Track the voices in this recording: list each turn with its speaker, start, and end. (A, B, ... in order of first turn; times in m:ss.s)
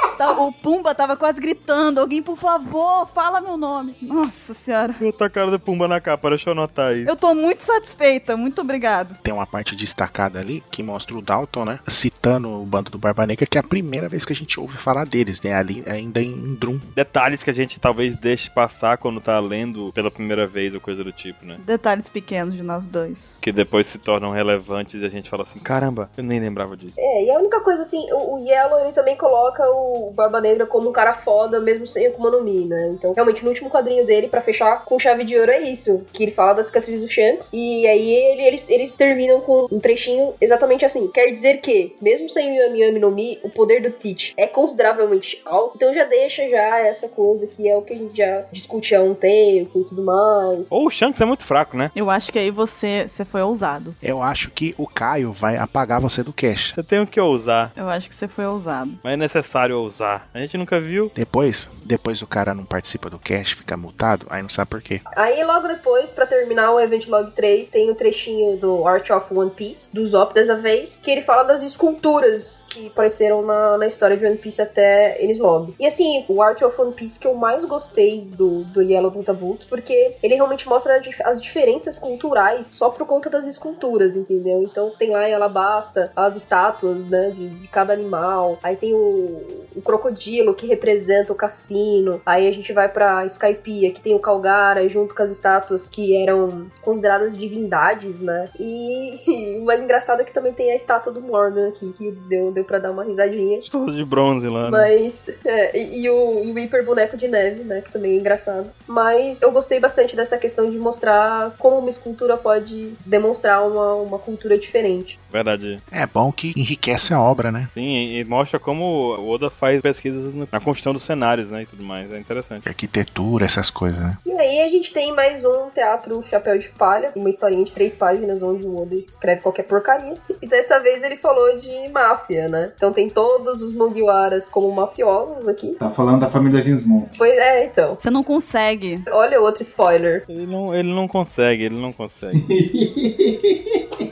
0:00.2-0:05.0 A
0:05.0-0:07.1 B
0:07.0-0:09.2 A
0:09.2-0:16.8 C
0:17.0-0:21.6 B
0:21.6-0:23.4 A
0:23.4-0:27.0 B
0:27.0-0:50.7 D
0:50.7-0:51.9 B
0:51.9-0:54.0 A
0:54.0-0:56.7 C
0:56.8-0:57.7 B
0:57.8-0:59.0 A
0:59.0-1:01.1 B
1:01.1-1:05.0 C
1:05.1-1:43.7 D
1:43.6-1:44.9 B
1:44.6-1:55.2 D
1:55.3-1:55.8 B
1:55.9-1:57.7 C
1:57.7-2:02.6 B
2:02.6-2:04.2 C
2:04.2-2:15.8 D
2:15.8-2:17.1 E
2:17.1-2:18.0 D
2:18.0-2:19.0 A
2:19.1-2:20.2 D
2:20.3-2:22.4 B
2:22.3-2:23.8 E